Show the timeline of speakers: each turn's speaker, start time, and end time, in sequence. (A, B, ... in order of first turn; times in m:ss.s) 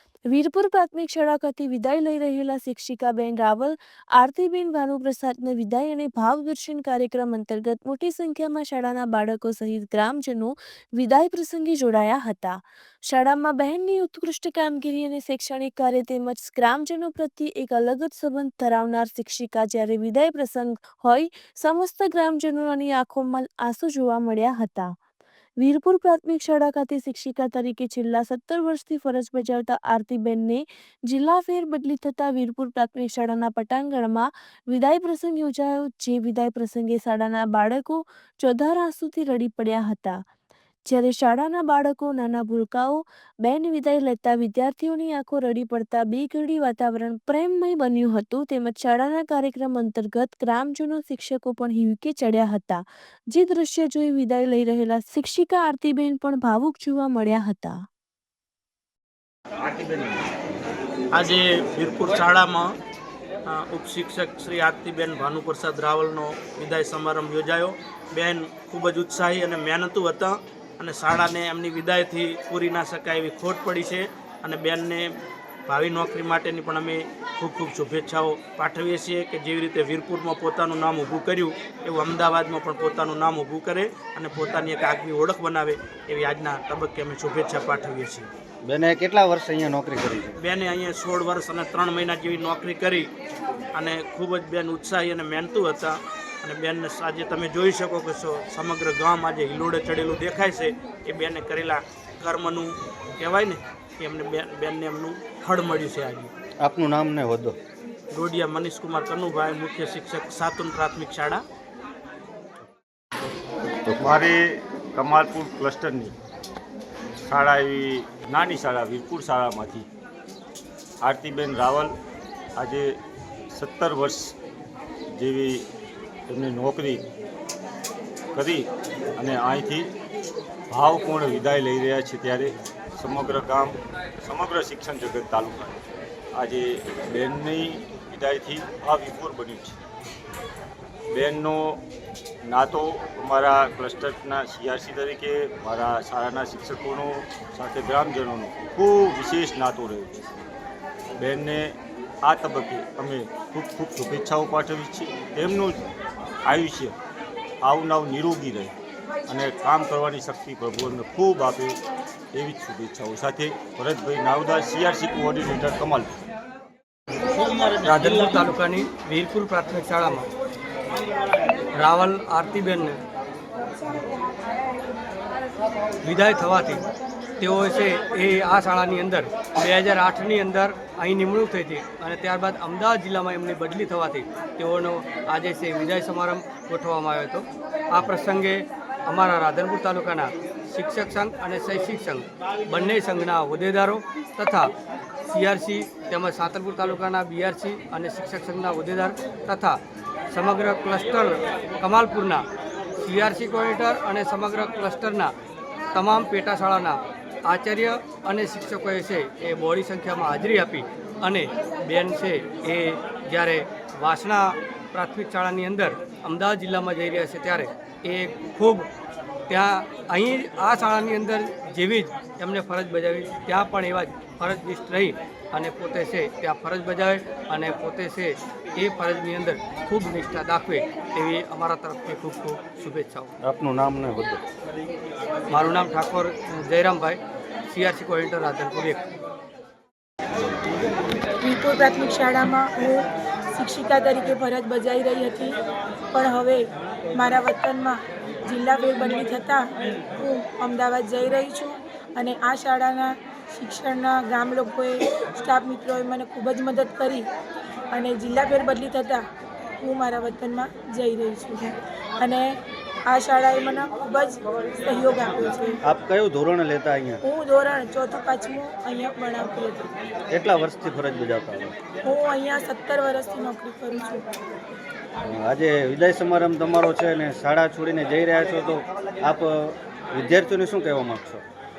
0:00.3-0:24.9 A
0:25.6-0:40.2 A
0:40.9-0:57.8 A
1:01.1-1:02.7 B
1:03.5-1:15.2 B
1:15.7-1:28.3 B
1:28.7-1:30.4 C
1:30.4-1:33.1 B
1:33.7-1:46.3 B
1:46.6-1:47.6 C
1:48.1-1:51.4 B
1:53.9-1:56.1 D
1:57.2-1:59.9 D
2:01.0-2:02.0 D
2:02.6-2:03.0 D
2:03.5-2:04.3 D
2:05.2-2:05.6 D
2:06.3-2:07.0 D
2:08.3-2:08.6 D
2:09.2-2:09.9 D
2:10.7-2:15.8 D
2:16.4-2:19.8 D
2:21.1-2:21.8 D
2:22.4-2:30.2 D
2:31.2-2:35.9 D
2:36.5-2:36.9 D
2:37.6-2:38.7 D
2:39.3-2:41.8 D
2:42.3-2:46.1 D
2:47.8-2:50.3 E
2:51.8-2:53.0 E
2:56.0-2:56.8 E
2:57.4-3:14.7 E
3:15.3-3:19.8 E
3:20.3-3:22.4 E
3:23.0-3:25.3 E
3:25.9-3:38.9 E
3:39.5-3:53.3 E
3:53.4-3:54.4 C
3:55.5-3:57.2 E
3:57.7-3:59.0 E
4:01.4-4:05.5 F
4:06.1-4:17.2 F
4:17.9-4:19.2 F
4:19.8-4:22.5 F
4:23.1-4:25.8 F
4:25.9-4:27.2 C
4:27.2-4:29.9 F
4:30.3-4:31.8 C
4:32.0-4:34.2 F
4:35.2-4:41.4 C